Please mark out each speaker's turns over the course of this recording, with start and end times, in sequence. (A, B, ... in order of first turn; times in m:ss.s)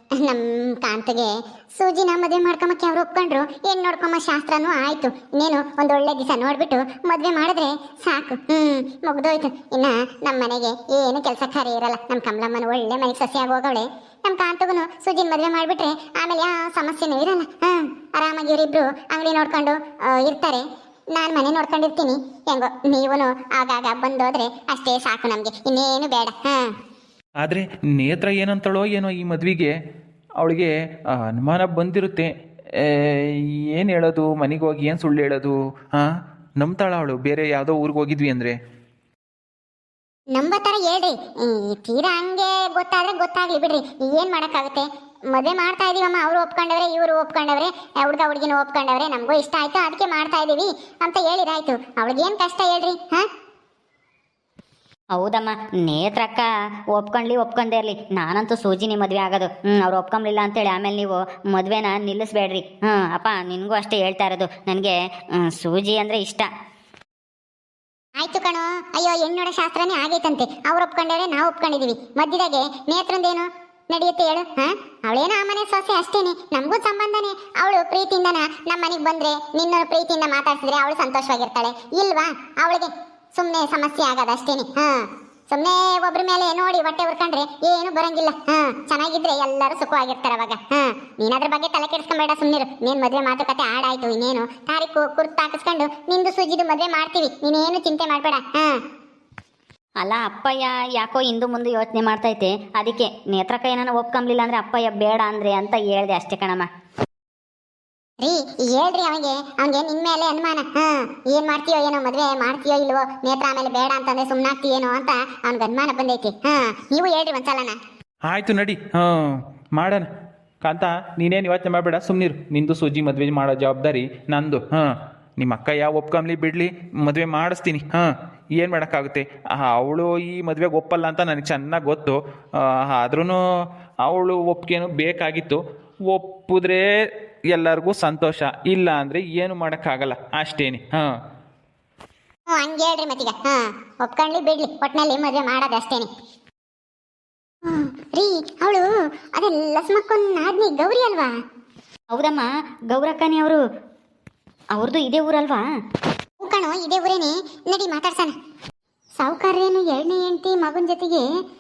0:00.2-0:26.7 A
0:27.4-0:29.7 B
0:30.4-0:36.1 B
0:36.6-0:38.6 B
0:40.3-0:53.2 A
0:55.1-1:06.5 C
1:08.2-1:38.8 A
1:40.0-1:46.7 C
1:48.2-1:57.8 A
1:58.3-2:00.1 B
2:00.6-2:04.9 B
2:05.4-2:08.0 B
2:08.6-2:13.4 B
2:14.0-2:16.8 B
2:17.5-2:21.1 B
2:22.5-2:26.1 A
2:27.6-2:31.3 A
2:32.1-2:33.6 C
2:34.7-2:35.6 C
2:36.4-2:38.3 A
2:39.2-2:41.3 A